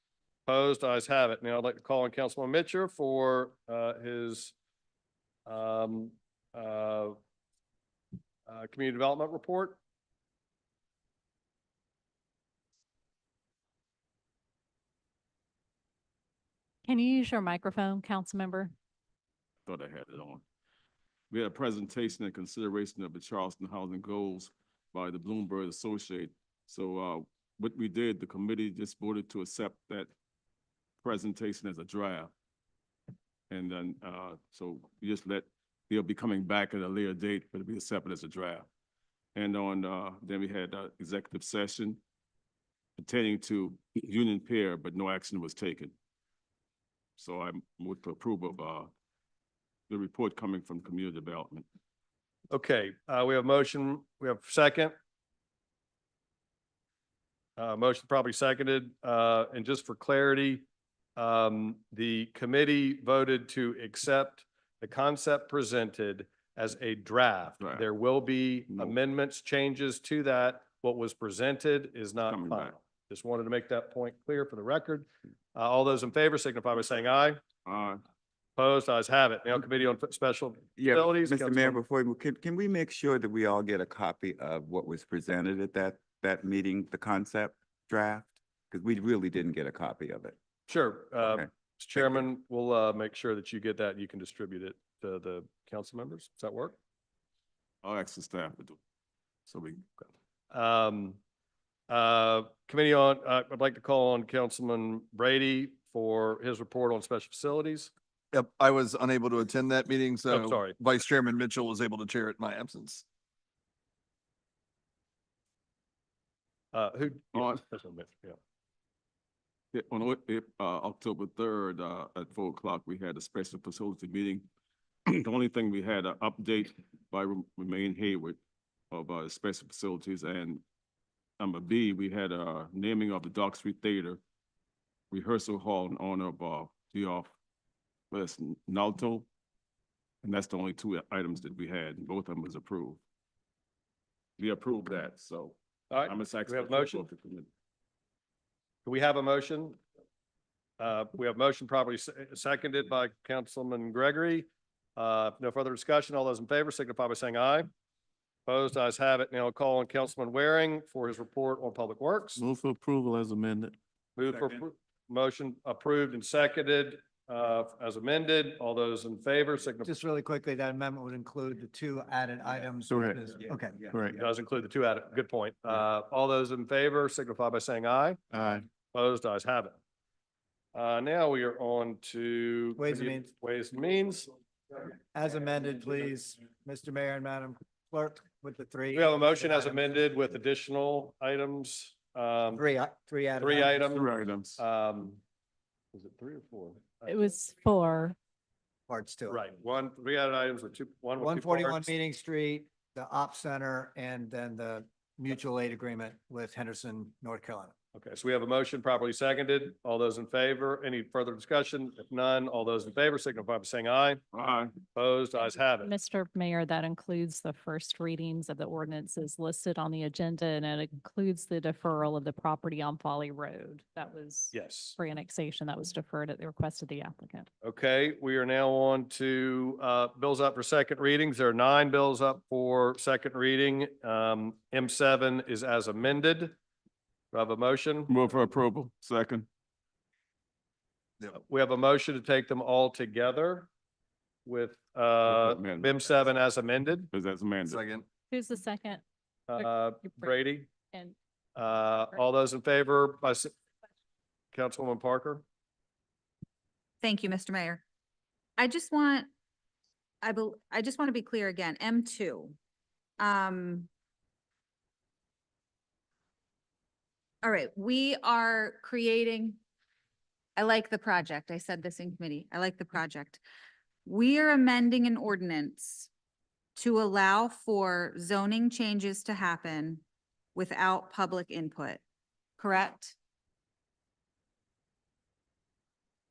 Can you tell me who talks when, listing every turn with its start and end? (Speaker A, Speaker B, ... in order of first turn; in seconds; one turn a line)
Speaker A: 0.5-4.5
Speaker A: 5.5-7.2
Speaker A: 8.5-9.8
Speaker B: 16.9-18.7
Speaker C: 19.7-20.4
Speaker C: 21.3-30.1
Speaker C: 31.0-32.3
Speaker C: 33.5-38.7
Speaker C: 39.4-42.0
Speaker C: 43.0-45.9
Speaker C: 47.2-48.9
Speaker C: 49.9-51.7
Speaker A: 52.5-55.0
Speaker A: 57.6-60.6
Speaker A: 61.2-77.4
Speaker C: 67.6-67.9
Speaker C: 72.3-72.8
Speaker C: 77.7-78.0
Speaker A: 78.6-81.8
Speaker D: 80.8-90.4
Speaker A: 90.7-96.8
Speaker D: 91.2-92.2
Speaker C: 97.8-98.8
Speaker C: 99.5-99.8
Speaker A: 100.5-101.2
Speaker A: 101.9-107.9
Speaker E: 108.3-113.0
Speaker A: 110.3-110.8
Speaker A: 116.7-118.4
Speaker C: 117.3-117.6
Speaker C: 119.7-124.5
Speaker C: 125.1-128.4
Speaker C: 128.9-130.6
Speaker C: 131.4-134.2
Speaker C: 135.1-137.3
Speaker C: 138.1-139.3
Speaker C: 140.2-143.0
Speaker C: 144.4-147.5
Speaker A: 145.9-147.0
Speaker A: 148.8-149.8
Speaker A: 150.8-157.7
Speaker A: 158.5-162.4
Speaker F: 162.4-163.8
Speaker A: 164.2-170.0
Speaker G: 169.8-173.8
Speaker F: 172.9-173.3
Speaker D: 173.2-174.2
Speaker F: 173.8-174.2
Speaker A: 174.1-178.2
Speaker F: 178.3-178.7
Speaker A: 178.9-179.8
Speaker A: 180.7-184.3
Speaker G: 182.8-183.3
Speaker G: 185.1-190.0
Speaker A: 188.9-192.6
Speaker G: 192.5-193.9
Speaker A: 193.4-195.2
Speaker C: 193.9-194.6
Speaker A: 195.9-197.2
Speaker B: 197.1-198.2
Speaker G: 198.9-199.5
Speaker A: 199.3-201.9
Speaker G: 201.2-207.7
Speaker A: 207.9-214.2
Speaker C: 214.3-214.7
Speaker A: 214.9-215.9
Speaker B: 215.5-227.5
Speaker A: 224.5-225.0
Speaker A: 227.6-236.6
Speaker A: 237.3-238.1
Speaker C: 238.1-239.5
Speaker A: 241.4-243.7
Speaker A: 244.4-247.1
Speaker C: 245.3-246.3
Speaker C: 247.1-247.8
Speaker E: 247.7-248.1
Speaker B: 248.3-249.0
Speaker A: 249.5-250.7
Speaker B: 249.6-251.2
Speaker A: 251.6-253.5
Speaker A: 254.5-255.4
Speaker H: 257.0-257.8
Speaker H: 258.6-259.3
Speaker H: 260.2-262.6
Speaker H: 263.2-263.9
Speaker H: 267.4-269.6
Speaker H: 270.6-273.4
Speaker H: 274.1-276.1
Speaker H: 276.8-280.0
Speaker H: 280.6-282.0
Speaker H: 282.6-283.2